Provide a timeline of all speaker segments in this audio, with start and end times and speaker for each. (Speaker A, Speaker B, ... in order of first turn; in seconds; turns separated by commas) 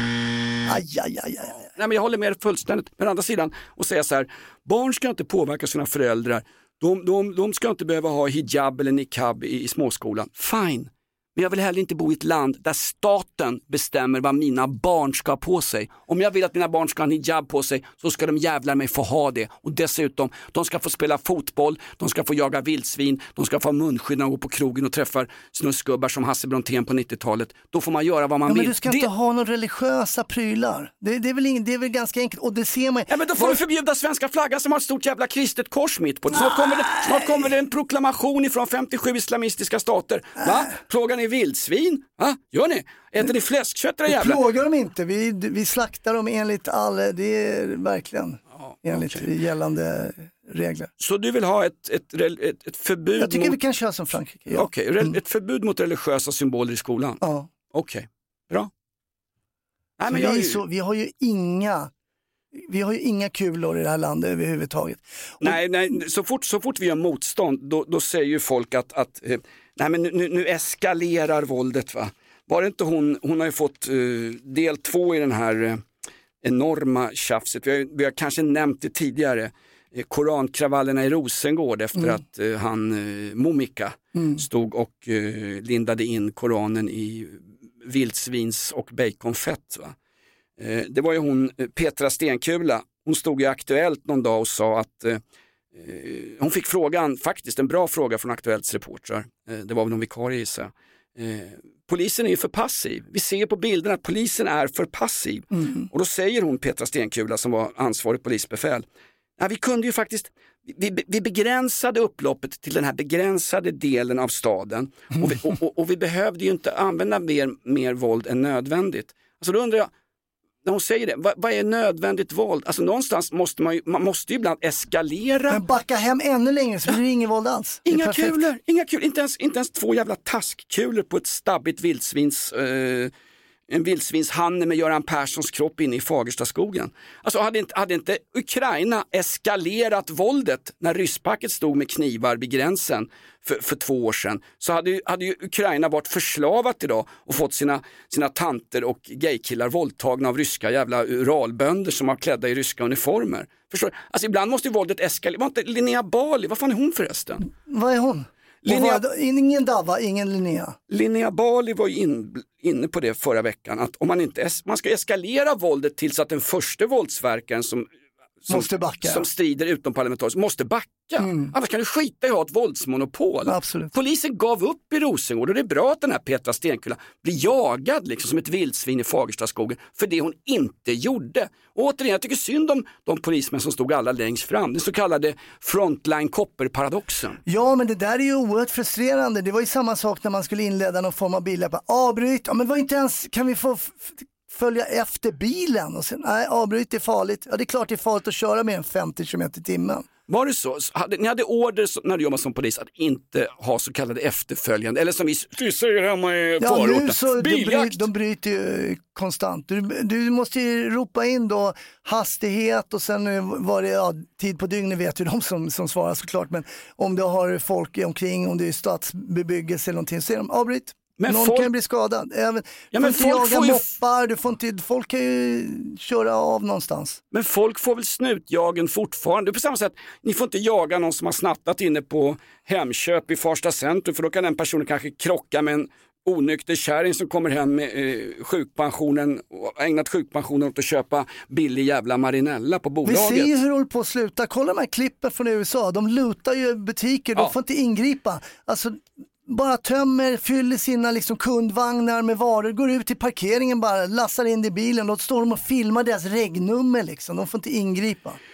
Speaker A: 0.7-1.7, Speaker B: 1.8-29.1, Speaker A: 28.4-33.6, Speaker B: 33.1-44.4, Speaker A: 36.3-37.5, Speaker A: 40.4-40.7, Speaker A: 44.1-50.9, Speaker B: 48.6-49.3, Speaker B: 51.0-53.6, Speaker A: 53.2-55.1, Speaker B: 54.5-58.7, Speaker A: 57.2-57.5, Speaker B: 60.0-60.6, Speaker A: 60.1-61.9, Speaker A: 62.5-65.6, Speaker B: 65.4-75.8, Speaker B: 76.4-89.9, Speaker A: 84.1-84.4, Speaker B: 90.6-95.2, Speaker B: 95.7-108.8, Speaker B: 109.4-119.9, Speaker B: 120.6-125.6, Speaker A: 125.5-128.4, Speaker B: 127.8-133.1, Speaker B: 133.7-157.5, Speaker A: 157.5-160.8, Speaker B: 158.6-159.0, Speaker B: 160.9-167.9, Speaker B: 168.4-187.4, Speaker A: 168.5-169.2, Speaker A: 171.2-171.5, Speaker A: 173.4-173.9, Speaker A: 187.4-200.1, Speaker B: 200.3-208.1, Speaker A: 206.6-227.2, Speaker B: 221.2-221.7, Speaker B: 222.9-223.9, Speaker B: 227.3-243.6, Speaker A: 243.0-258.4